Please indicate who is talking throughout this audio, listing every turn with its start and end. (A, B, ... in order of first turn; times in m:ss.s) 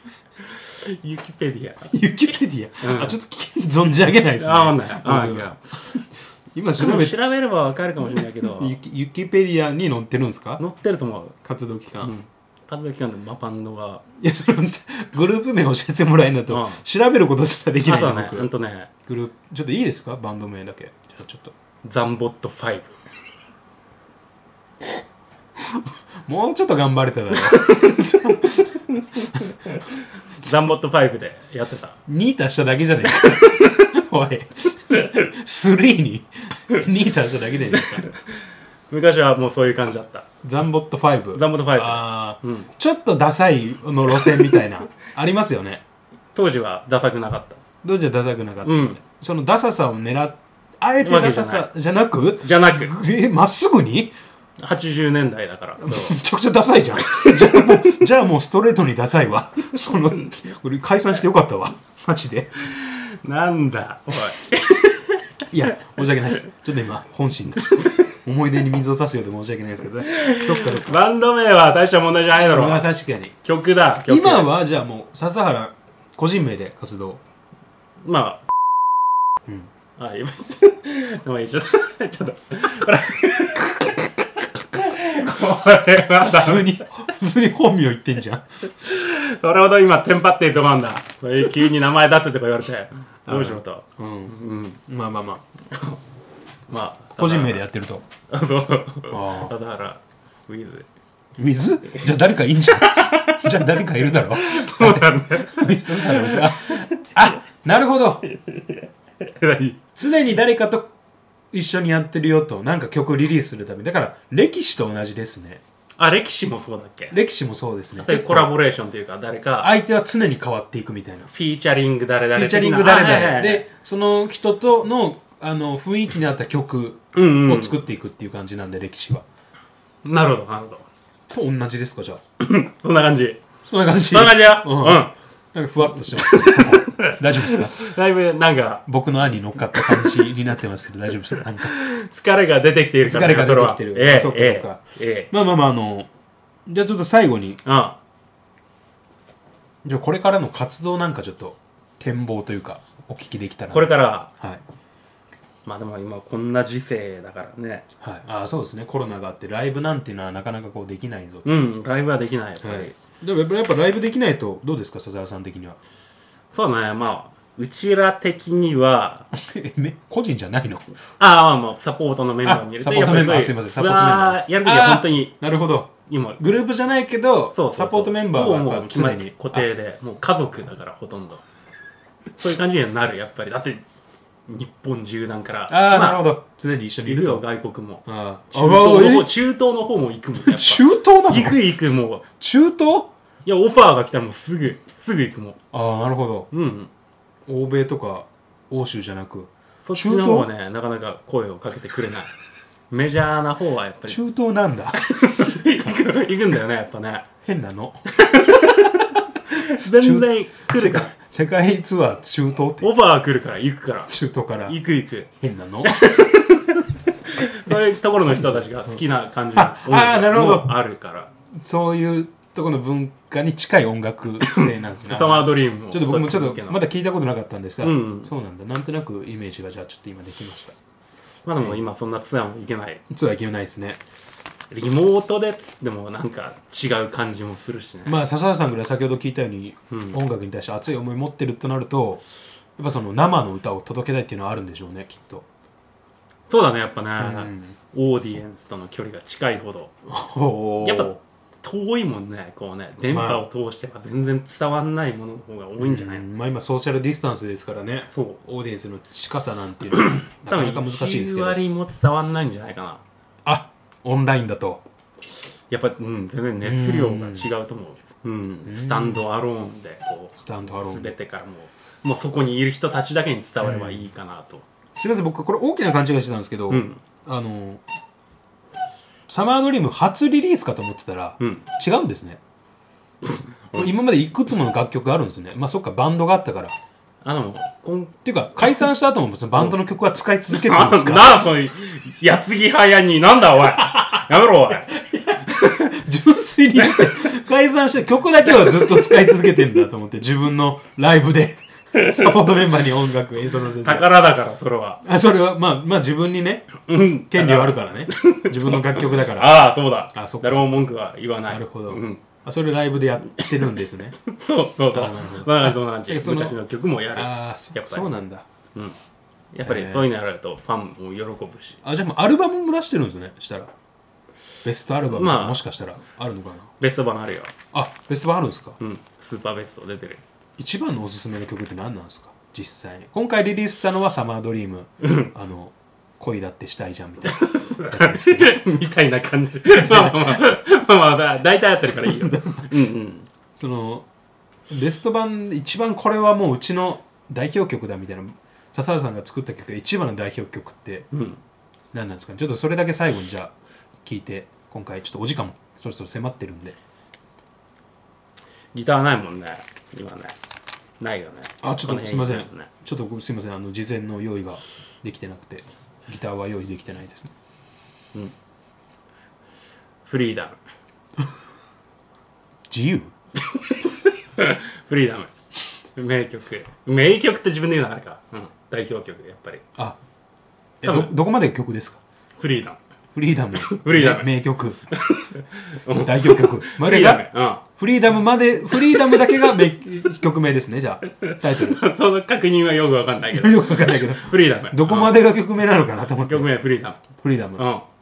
0:00.5-0:01.9 A
0:01.9-0:07.2 B
0:02.8-0:03.2 A
0:04.4-0:05.9 A
0:06.8-0:08.8 A
0:08.1-0:10.6 B
0:10.6-0:11.4 A
0:11.4-0:12.2 B
0:12.0-0:14.0 A
0:14.2-0:18.5 B
0:16.5-0:16.8 A
0:17.8-0:18.9 A
0:19.0-0:21.5 B
0:21.8-0:22.9 A
0:25.6-0:29.5 B
0:27.5-0:28.2 A
0:29.3-0:29.8 A
0:30.4-0:32.0 A
0:32.1-0:38.1 B
0:33.2-0:33.9 A
0:37.7-0:40.3 A
0:40.4-0:45.8 B
0:41.4-0:42.7 A
0:46.4-0:47.6 A
0:47.8-0:54.2 B
0:48.6-0:49.0 A
0:51.0-0:51.7 A
0:52.4-0:52.9 A
0:54.6-0:56.2 A
0:55.8-1:02.5 B
0:57.1-0:58.0 A
1:02.7-1:05.4 A
1:05.5-1:11.0 B
1:07.8-1:08.1 A
1:10.1-1:12.9 A
1:12.5-1:13.4 B
1:13.4-1:14.6 A
1:14.1-1:17.2 B
1:18.0-1:18.5 A
1:20.0-1:26.7 A
1:26.2-1:28.5 B
1:28.8-1:34.8 A
1:33.3-1:34.4 B
1:34.9-1:35.4 B
1:35.7-1:36.0 A
1:36.7-1:37.6 A
1:37.2-1:38.0 B
1:38.3-1:40.9 A
1:39.1-1:39.5 B
1:41.4-1:48.2 B
1:42.8-1:47.3 A
1:48.3-1:49.8 A
1:50.0-1:50.9 B
1:51.5-1:55.6 B
1:56.0-1:57.2 A
1:57.1-1:58.5 B
1:58.0-1:59.7 A
1:59.6-2:01.3 B
2:01.3-2:03.6 A
2:02.4-2:09.2 B
2:07.1-2:07.8 A
2:10.0-2:10.9 A
2:11.3-2:12.2 B
2:12.4-2:13.4 A
2:13.7-2:17.8 B
2:14.1-2:15.1 A
2:16.2-2:18.9 A
2:18.9-2:21.8 B
2:19.8-2:20.2 A
2:21.6-2:25.3 A
2:23.0-2:26.1 B
2:26.7-2:27.6 B
2:27.6-2:28.0 A
2:29.8-2:34.6 B
2:33.7-2:34.3 A
2:35.6-2:37.9 A
2:38.0-2:41.5 B
2:41.4-2:43.0 A
2:42.6-2:45.8 B
2:46.5-2:49.3 A
2:49.3-2:50.8 B
2:51.2-2:55.4 A
2:52.4-2:59.7 B
2:56.1-2:56.4 A
2:57.5-3:01.4 A
3:02.4-3:03.8 A
3:04.5-3:06.2 A
3:05.7-3:07.4 B
3:07.1-3:12.2 A
3:08.1-3:09.3 B
3:10.4-3:11.6 B
3:12.3-3:13.1 B
3:13.4-3:15.6 A
3:15.7-3:16.5 B
3:16.5-3:16.9 A
3:17.5-3:20.5 B
3:19.8-3:22.3 A
3:22.9-3:24.2 A
3:24.1-3:26.0 B
3:25.0-3:27.3 A
3:27.4-3:28.9 B
3:28.1-3:31.1 A
3:29.5-3:33.0 B
3:32.8-3:34.1 A
3:34.1-3:34.8 B
3:34.7-3:35.3 A
3:35.3-3:36.1 B
3:35.8-3:41.3 A
3:37.6-3:39.0 B
3:39.5-3:40.8 B
3:41.5-3:50.8 B
3:44.4-3:46.8 A
3:47.8-3:48.3 A
3:51.4-3:53.0 A
3:51.6-3:51.8 B
3:53.1-3:54.0 B
3:54.7-3:58.2 A
3:58.0-4:02.2 B
3:59.9-4:00.2 A
4:02.8-4:05.5 B
4:06.5-4:09.9 A
4:07.2-4:07.8 B
4:10.1-4:11.2 B
4:10.8-4:16.2 A
4:13.1-4:13.4 B
4:15.8-4:21.6 B
4:18.1-4:18.4 A
4:19.9-4:23.0 A
4:23.4-4:24.8 B
4:25.7-4:30.4 A
4:26.6-4:27.5 B
4:28.7-4:29.3 B
4:30.3-4:31.1 B
4:30.9-4:34.6 A
4:33.6-4:34.1 B
4:35.0-4:37.8 B
4:36.7-4:37.0 A
4:39.3-4:42.4 B
4:41.4-4:41.7 A
4:43.2-4:44.0 A
4:43.8-4:46.8 B
4:47.2-4:48.2 A
4:48.2-4:51.5 B
4:50.5-4:54.9 A
4:53.8-4:54.2 B
4:55.0-5:04.1 B
4:58.6-4:59.5 A
5:02.0-5:02.3 A
5:03.8-5:05.0 A
5:05.0-5:10.7 B
5:06.9-5:12.2 A
5:11.5-5:14.2 B
5:14.3-5:18.1 A
5:14.9-5:16.6 B
5:17.1-5:18.5 B
5:19.5-5:21.8 A
5:19.6-5:20.1 B
5:21.8-5:23.7 B
5:24.6-5:26.7 B
5:25.1-5:25.6 A
5:26.8-5:27.5 A
5:27.7-5:28.8 B
5:28.8-5:30.2 A
5:30.6-5:38.6 B
5:35.0-5:35.3 A
5:37.3-5:43.3 A
5:39.7-5:40.4 B
5:42.0-5:42.8 B
5:43.6-5:44.1 B
5:44.7-5:51.1 B
5:51.1-5:51.4 A
5:51.9-5:53.5 B
5:54.0-5:56.8 B
5:58.7-6:00.4 A
6:01.0-6:02.7 A
6:01.6-6:07.3 B
6:10.1-6:10.6 A
6:12.7-6:13.1 B
6:13.6-6:15.3 A
6:16.0-6:19.6 A
6:20.8-6:21.1 A
6:20.8-6:22.0 B
6:22.4-6:22.8 A
6:23.1-6:24.8 B
6:23.6-6:24.3 A
6:24.9-6:27.6 A
6:25.9-6:31.8 B
6:28.9-6:29.5 A
6:31.2-6:35.2 A
6:33.3-6:36.5 B
6:36.3-6:37.0 A
6:37.2-6:37.6 B
6:37.6-6:37.8 A